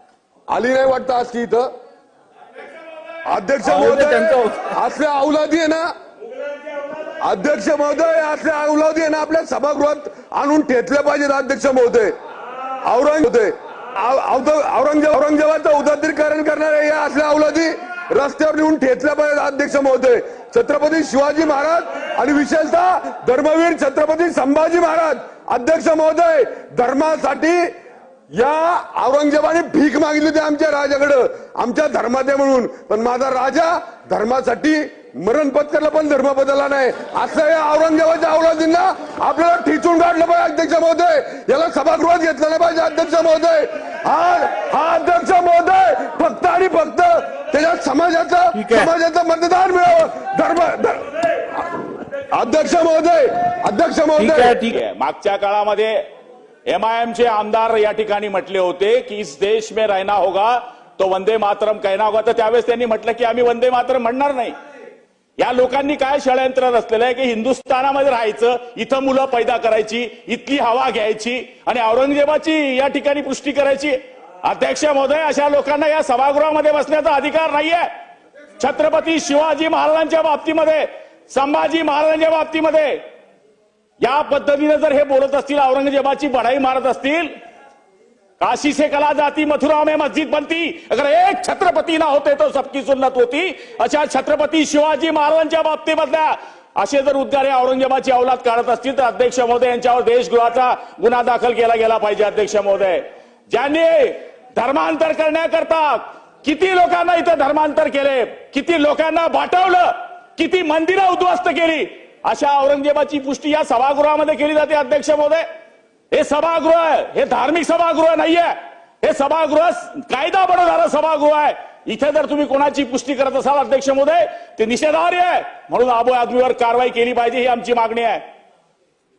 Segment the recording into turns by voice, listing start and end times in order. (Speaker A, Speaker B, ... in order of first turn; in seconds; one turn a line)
Speaker A: 0.5-1.7
Speaker A: 3.3-5.9
Speaker B: 3.6-4.7
Speaker A: 7.2-12.2
Speaker A: 12.8-27.7
Speaker A: 28.3-51.1
Speaker B: 48.5-48.9
Speaker A: 52.3-54.6
Speaker B: 54.2-54.7
Speaker C: 54.7-56.0
Speaker C: 56.7-64.6
Speaker C: 65.4-77.9
Speaker C: 78.6-83.0
Speaker C: 84.0-87.3
Speaker C: 88.4-115.4
Speaker C: 116.1-128.2